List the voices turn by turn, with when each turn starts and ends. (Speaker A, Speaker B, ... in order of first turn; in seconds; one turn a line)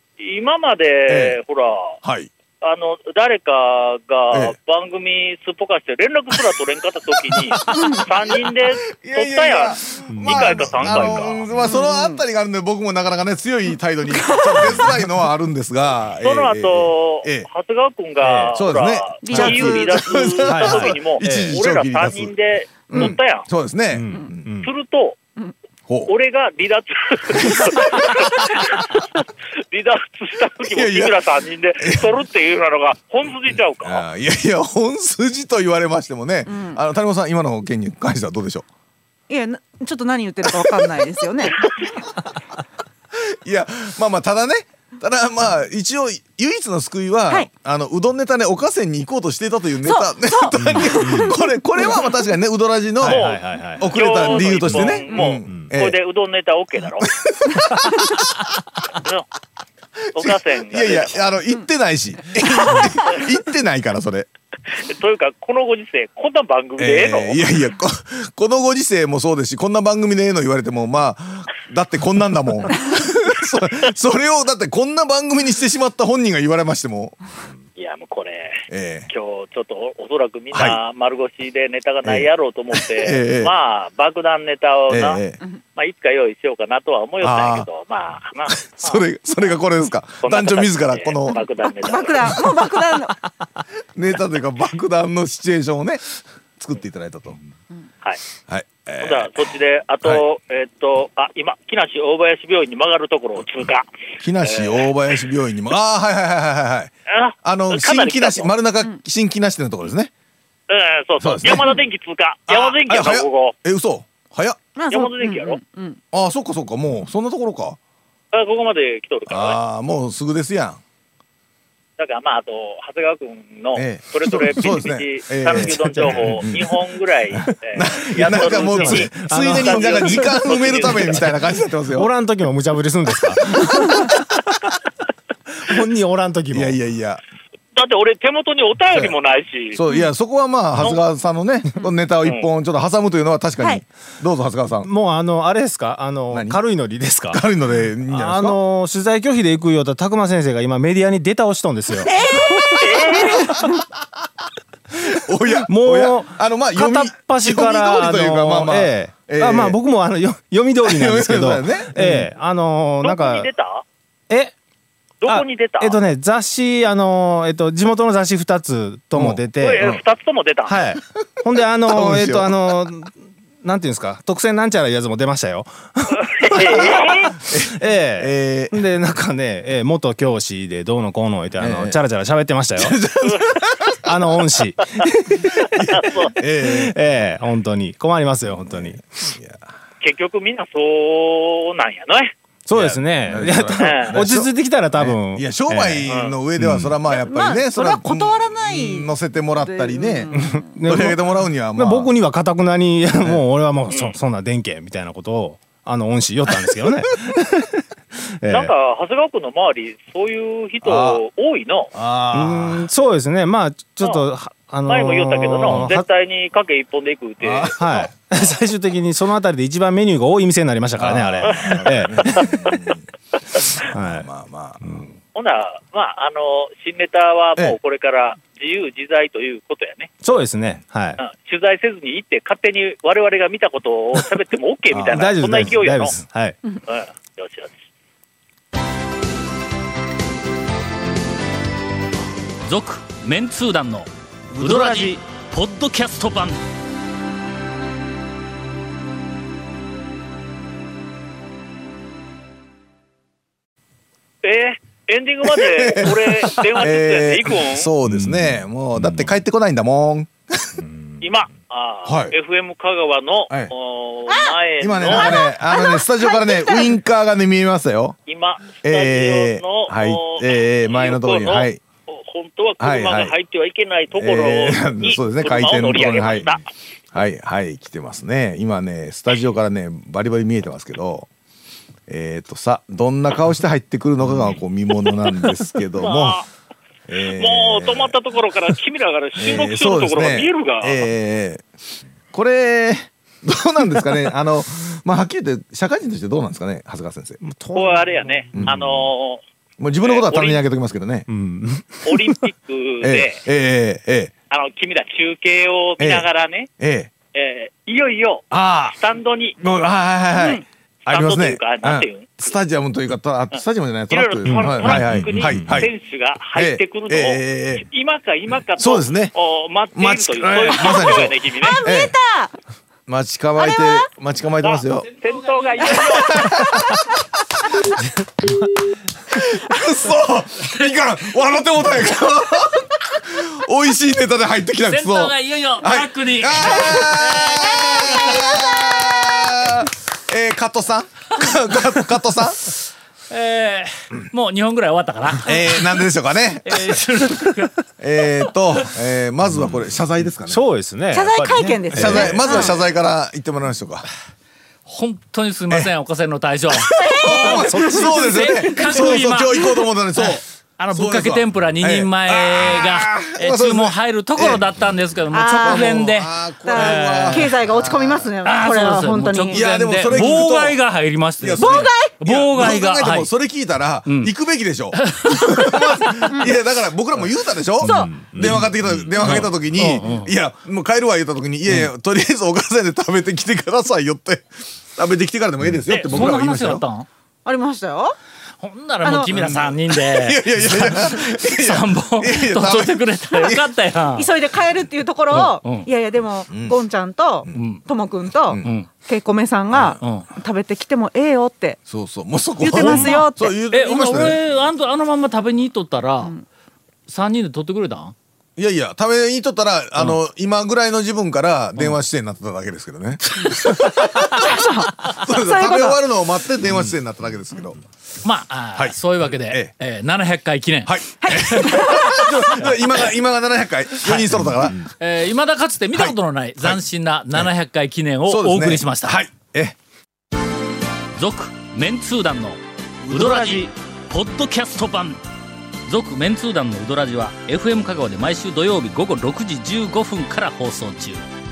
Speaker A: 0.2-1.9
Speaker B: 1.1-1.4
Speaker B: 2.0-2.3
Speaker A: 2.6-11.4
Speaker B: 7.6-7.9
Speaker C: 7.7-8.1
Speaker B: 8.9-17.5
Speaker D: 10.1-11.7
Speaker C: 11.6-12.2
Speaker C: 14.1-14.9
Speaker A: 16.2-23.5
Speaker B: 18.2-22.3
Speaker C: 19.2-20.2
Speaker D: 20.4-21.6
Speaker B: 22.9-24.5
Speaker D: 23.9-24.7
Speaker A: 24.6-25.2
Speaker A: 26.1-29.1
Speaker A: 29.7-34.0
Speaker B: 30.7-32.1
Speaker B: 33.8-38.6
Speaker C: 36.5-36.8
Speaker C: 39.3-42.0
Speaker B: 40.6-40.9
Speaker B: 41.6-41.9
Speaker B: 43.4-56.0
Speaker C: 49.8-51.9
Speaker D: 50.5-51.3
Speaker D: 53.0-54.9
Speaker A: 53.0-57.1
Speaker C: 55.1-55.4
Speaker B: 57.0-58.3
Speaker A: 59.0-59.3
Speaker A: 60.1-61.4
Speaker B: 60.2-64.3
Speaker A: 64.9-67.5
Speaker B: 66.8-77.2
Speaker A: 77.8-85.2
Speaker B: 78.7-79.1
Speaker B: 80.5-80.8
Speaker B: 82.0-82.3
Speaker B: 83.0-83.5
Speaker B: 84.9-85.4
Speaker A: 85.7-89.0
Speaker B: 87.2-87.7
Speaker B: 88.4-92.4
Speaker A: 90.2-92.4
Speaker C: 91.9-93.2
Speaker B: 93.9-96.0
Speaker B: 96.6-97.4
Speaker B: 98.5-99.4
Speaker A: 99.0-103.9
Speaker B: 104.2-110.1
Speaker A: 104.4-104.9
Speaker A: 107.1-108.5
Speaker A: 110.7-113.5
Speaker B: 111.2-111.7
Speaker B: 112.5-114.6
Speaker C: 114.8-116.0
Speaker A: 114.9-115.6
Speaker B: 116.1-117.8
Speaker A: 118.3-119.6
Speaker B: 119.3-120.8
Speaker A: 122.0-131.4
Speaker B: 123.7-126.8
Speaker D: 125.6-126.2
Speaker B: 127.3-132.1
Speaker D: 128.2-131.3
Speaker D: 131.9-134.2
Speaker B: 133.5-134.2
Speaker D: 135.6-136.8
Speaker B: 136.5-137.2
Speaker A: 137.8-139.8
Speaker B: 139.7-144.9
Speaker D: 144.8-147.4
Speaker B: 146.3-146.6
Speaker B: 147.3-148.6
Speaker D: 148.1-153.1
Speaker C: 152.1-153.6
Speaker A: 152.8-153.4
Speaker B: 153.3-153.8
Speaker B: 155.1-159.8
Speaker D: 155.7-163.5
Speaker B: 160.8-162.3
Speaker A: 163.0-163.8
Speaker D: 164.3-164.5
Speaker A: 165.2-166.0
Speaker D: 165.2-169.9
Speaker B: 169.1-170.0
Speaker A: 169.6-170.8
Speaker D: 170.7-176.9
Speaker B: 171.8-172.6
Speaker A: 176.1-177.3
Speaker B: 177.5-178.9
Speaker D: 177.7-183.0
Speaker B: 181.6-182.0
Speaker B: 182.8-184.0
Speaker D: 184.0-185.6
Speaker B: 185.6-186.9
Speaker A: 185.9-186.3
Speaker D: 186.6-189.0
Speaker B: 188.4-189.7
Speaker A: 190.0-192.3
Speaker D: 192.7-196.9
Speaker B: 192.7-202.1
Speaker A: 193.8-194.2
Speaker A: 196.1-196.4
Speaker C: 197.1-200.7
Speaker D: 200.4-201.2
Speaker D: 201.7-207.8
Speaker A: 203.9-204.2
Speaker D: 208.4-208.7
Speaker A: 208.5-211.9
Speaker B: 210.8-211.2
Speaker B: 211.9-212.9
Speaker D: 212.3-216.0
Speaker A: 214.9-217.8
Speaker B: 217.4-218.1
Speaker D: 217.8-222.5
Speaker B: 221.0-223.0
Speaker A: 221.4-222.4
Speaker D: 223.9-224.3
Speaker B: 223.9-225.1
Speaker A: 225.3-230.3
Speaker D: 230.2-231.2
Speaker A: 231.2-236.2
Speaker B: 234.9-235.2
Speaker D: 235.1-236.6
Speaker A: 236.9-237.7
Speaker E: 242.7-246.6
Speaker D: 244.6-245.1
Speaker A: 254.4-257.9
Speaker B: 255.4-260.8
Speaker D: 258.0-259.3
Speaker A: 261.2-265.4
Speaker B: 262.0-262.3
Speaker B: 264.8-268.1
Speaker C: 265.1-266.9
Speaker A: 268.2-276.6
Speaker B: 268.8-271.8
Speaker B: 272.8-273.3
Speaker B: 274.1-276.6
Speaker B: 277.1-281.3
Speaker B: 282.1-286.4
Speaker A: 285.9-286.5
Speaker B: 287.1-288.1
Speaker A: 287.3-291.0
Speaker B: 289.3-291.6
Speaker B: 292.3-297.4
Speaker D: 297.4-298.8
Speaker A: 297.7-299.4
Speaker B: 298.5-299.1
Speaker B: 299.8-301.3
Speaker A: 300.0-300.6
Speaker D: 301.3-302.3
Speaker A: 302.1-303.4
Speaker B: 303.0-304.3
Speaker A: 304.5-306.7
Speaker B: 306.0-307.1
Speaker A: 307.3-309.6
Speaker B: 308.5-309.0
Speaker B: 309.6-315.9
Speaker A: 310.4-312.5
Speaker A: 313.5-321.8
Speaker D: 314.4-315.8
Speaker B: 316.5-317.9
Speaker B: 318.8-319.3
Speaker B: 319.9-322.1
Speaker C: 321.6-322.5
Speaker B: 323.1-325.1
Speaker C: 323.6-324.1
Speaker A: 324.6-326.6
Speaker C: 325.8-326.5
Speaker B: 326.0-327.0
Speaker B: 329.3-342.6
Speaker E: 334.8-338.5
Speaker E: 343.3-346.1
Speaker B: 345.4-346.8
Speaker E: 346.6-347.8
Speaker B: 348.0-350.6
Speaker D: 350.4-352.6
Speaker C: 351.1-352.7
Speaker B: 351.9-354.1
Speaker E: 354.9-373.3
Speaker B: 356.7-364.7
Speaker C: 357.0-359.0
Speaker D: 357.7-358.3
Speaker C: 365.3-369.7
Speaker B: 365.5-368.3
Speaker B: 369.5-370.8
Speaker B: 371.4-386.8
Speaker C: 371.6-372.2
Speaker E: 374.1-374.4
Speaker E: 374.9-375.8
Speaker C: 376.3-376.6
Speaker C: 377.8-378.1
Speaker D: 377.8-379.1
Speaker E: 379.2-380.3
Speaker E: 385.9-387.1
Speaker C: 387.4-388.2
Speaker E: 388.6-394.3
Speaker C: 389.0-389.3
Speaker B: 389.3-393.6
Speaker C: 394.1-401.8
Speaker E: 395.3-395.9
Speaker B: 396.5-396.8
Speaker B: 397.4-397.8
Speaker E: 397.5-397.9
Speaker E: 398.6-398.9
Speaker E: 399.9-400.3
Speaker B: 401.9-404.4
Speaker C: 402.6-403.6
Speaker E: 402.8-406.3
Speaker E: 407.1-408.1
Speaker B: 408.6-417.8
Speaker E: 413.8-414.2
Speaker C: 414.5-416.0
Speaker E: 418.2-422.7
Speaker B: 418.7-419.8
Speaker B: 420.8-424.8
Speaker C: 421.2-422.2
Speaker E: 424.0-424.4
Speaker E: 424.9-429.2
Speaker B: 425.9-426.8
Speaker B: 428.2-429.8
Speaker E: 431.1-435.2
Speaker B: 433.1-433.6
Speaker E: 435.9-441.2